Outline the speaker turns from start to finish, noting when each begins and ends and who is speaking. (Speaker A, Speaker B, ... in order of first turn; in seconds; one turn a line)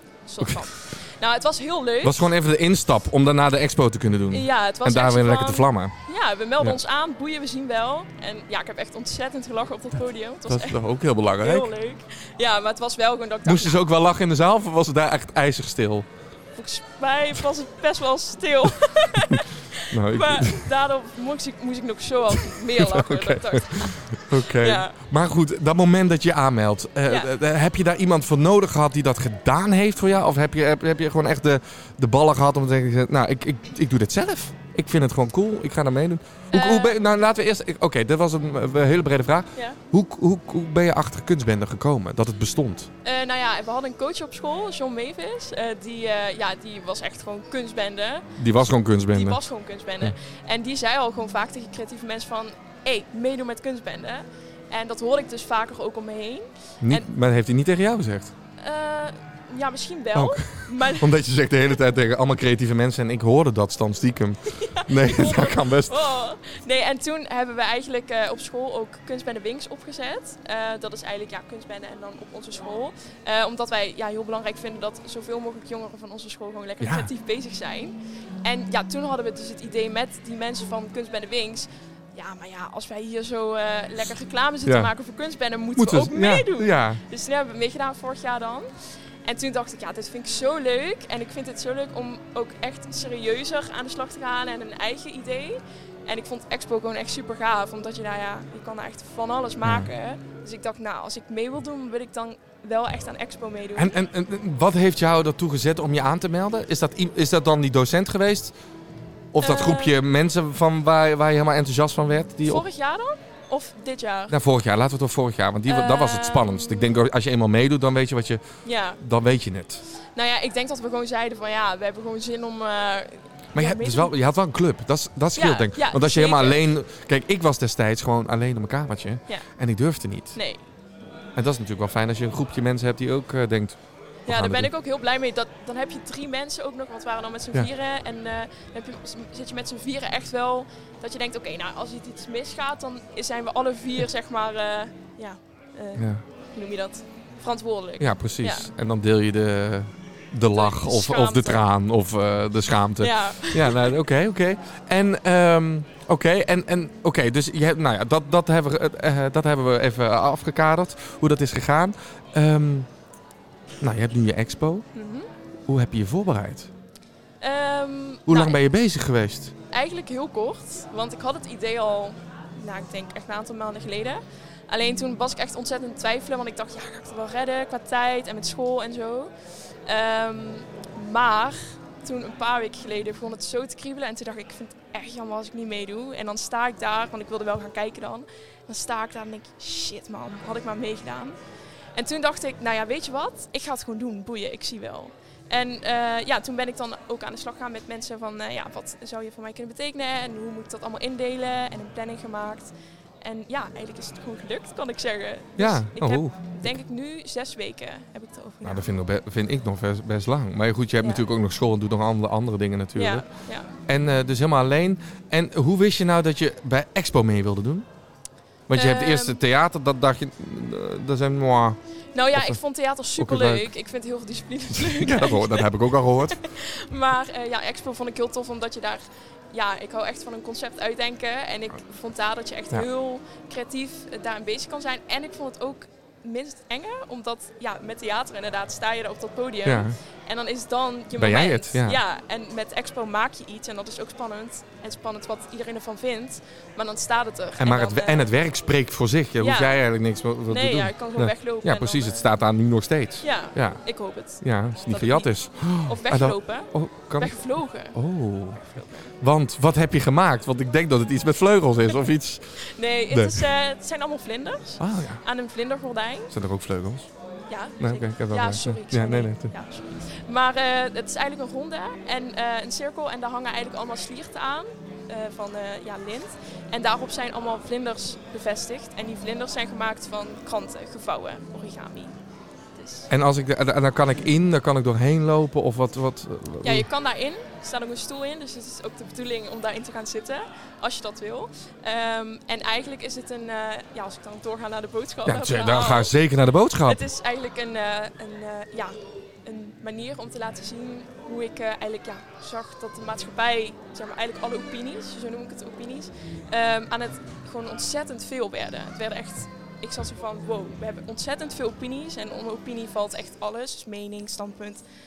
Speaker A: 0.3-2.2
Speaker B: 0.4-0.7
Speaker B: 2.0-5.9
Speaker A: 4.3-10.8
Speaker B: 10.5-11.7
Speaker A: 11.4-13.8
Speaker B: 13.4-16.1
Speaker A: 16.6-24.9
Speaker B: 19.3-20.7
Speaker B: 22.7-42.9
Speaker A: 27.1-27.3
Speaker A: 36.5-37.0
Speaker A: 43.0-57.1
Speaker B: 48.4-49.4
Speaker B: 56.8-58.3
Speaker A: 58.6-61.1
Speaker B: 60.1-66.0
Speaker A: 64.5-88.7
Speaker B: 76.8-77.1
Speaker B: 85.8-87.0
Speaker A: 89.2-104.0
Speaker B: 99.6-99.9
Speaker B: 103.8-108.5
Speaker B: 109.3-112.6
Speaker A: 109.4-110.0
Speaker A: 112.4-114.3
Speaker B: 114.3-118.4
Speaker A: 115.7-116.9
Speaker A: 118.6-119.0
Speaker B: 119.0-119.8
Speaker A: 120.2-124.1
Speaker B: 123.5-130.4
Speaker A: 125.3-126.7
Speaker A: 130.3-130.6
Speaker B: 131.3-134.7
Speaker A: 134.3-148.7
Speaker B: 146.0-146.2
Speaker B: 148.0-162.9
Speaker A: 150.5-151.7
Speaker A: 153.0-153.9
Speaker B: 163.8-164.8
Speaker A: 164.9-165.3
Speaker B: 165.7-166.7
Speaker A: 167.4-168.6
Speaker B: 168.3-169.5
Speaker A: 169.7-179.3
Speaker A: 179.8-191.3
Speaker A: 191.9-202.7
Speaker A: 203.2-208.9
Speaker B: 205.6-206.7
Speaker B: 208.6-213.2
Speaker A: 211.0-211.2
Speaker A: 212.9-213.7
Speaker B: 213.8-217.9
Speaker B: 218.7-221.8
Speaker A: 218.7-219.4
Speaker A: 222.1-248.3
Speaker B: 223.2-223.7
Speaker B: 224.7-226.4
Speaker B: 239.6-239.9
Speaker B: 241.2-242.0
Speaker B: 247.6-263.4
Speaker A: 249.4-249.8
Speaker A: 250.5-252.3
Speaker A: 253.2-258.0
Speaker A: 258.7-259.1
Speaker A: 262.6-266.3
Speaker B: 264.8-265.2
Speaker B: 266.3-267.1
Speaker A: 267.5-282.1
Speaker B: 267.8-269.5
Speaker A: 282.8-283.1
Speaker B: 283.1-286.9
Speaker A: 286.6-296.1
Speaker B: 295.2-297.0
Speaker A: 296.8-314.8